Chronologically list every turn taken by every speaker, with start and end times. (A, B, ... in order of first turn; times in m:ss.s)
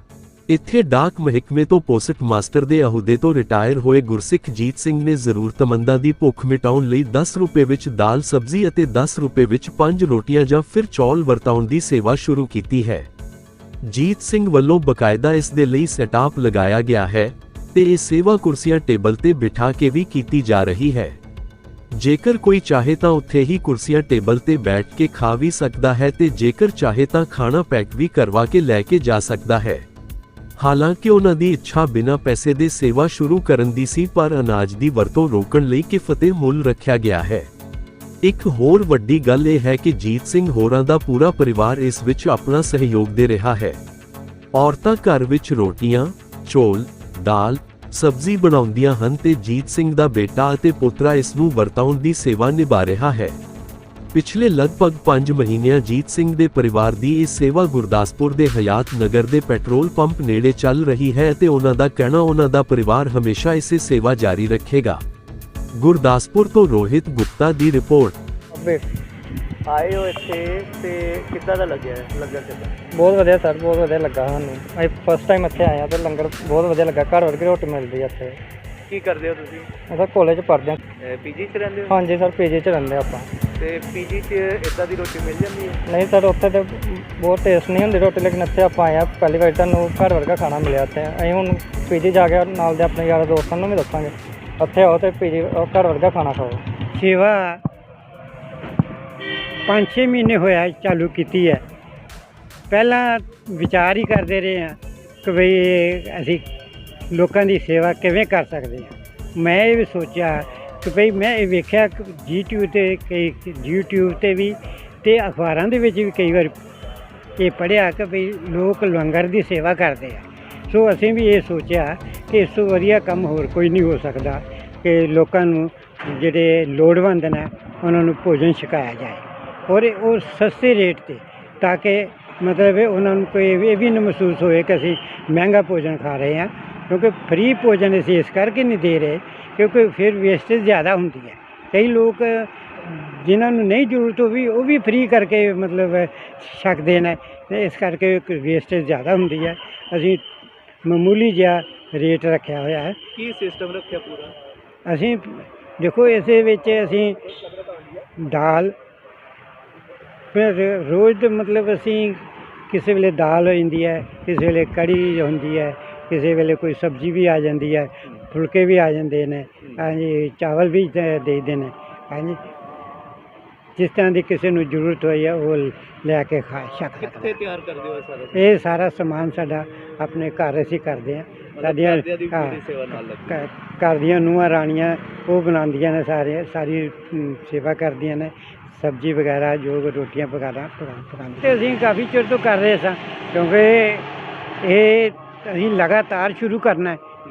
0:00.5-0:13.1 A
0:13.8-0:21.2 A
0:21.9-0:29.8 A
0:30.6-0:37.5 A
0:38.2-0:43.8 A
0:44.5-0:53.4 A
0:54.1-1:05.0 A
1:05.8-1:08.2 A
1:08.5-1:08.9 B
1:09.7-1:12.7 C
1:12.9-1:18.4 B
1:18.9-1:19.7 C
1:19.9-1:20.8 B
1:21.0-1:21.9 C
1:21.9-1:23.3 B
1:23.6-1:25.8 C
1:25.8-1:36.6 B
1:36.9-1:37.6 D
1:39.7-1:41.6 D
1:42.7-1:46.4 D
1:47.1-1:56.5 D
1:57.4-2:30.2 D
2:30.8-2:33.0 D
2:33.2-2:34.3 C
2:34.8-2:37.3 D
2:38.2-2:38.7 D
2:40.3-2:52.4 D
2:53.8-2:57.4 D
2:57.1-2:58.4 C
2:58.3-3:14.1 D
3:01.6-3:03.4 C
3:14.6-3:17.0 D